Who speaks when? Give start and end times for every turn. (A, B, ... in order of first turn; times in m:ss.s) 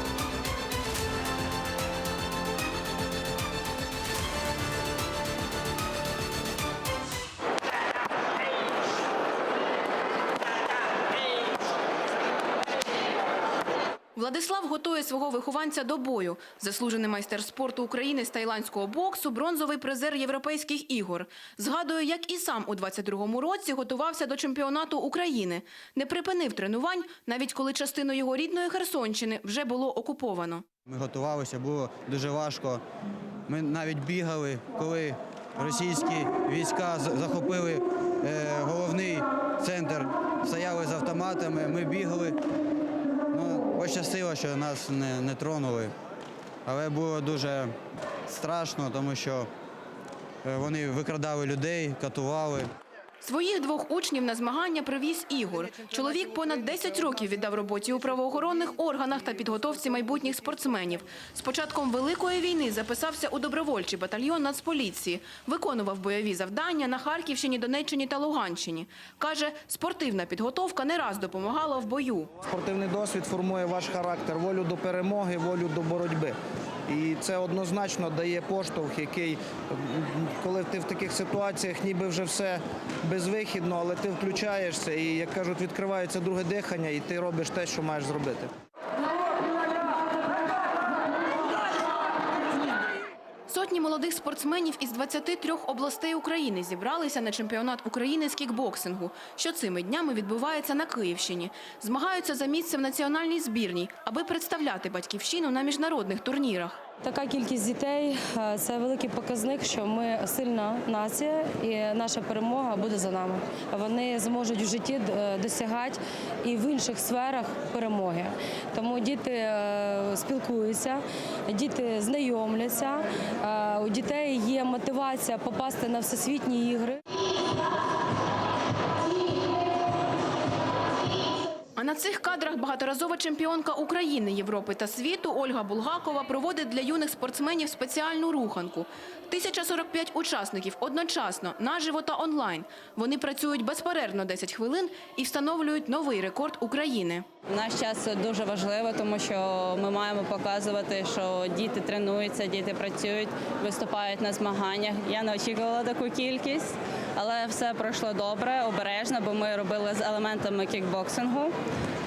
0:14.2-0:30.6 A
0:30.8-0:32.8 B
0:33.5-0:42.4 B
0:43.3-0:45.9 B
0:46.6-0:47.7 B
0:48.3-0:49.5 B
0:50.4-0:52.7 B
0:53.2-1:12.4 A
1:12.4-1:16.3 C
1:16.9-1:28.5 C
1:33.5-1:46.8 A
1:47.0-2:07.0 D
2:11.8-2:27.2 A
2:27.5-2:41.5 E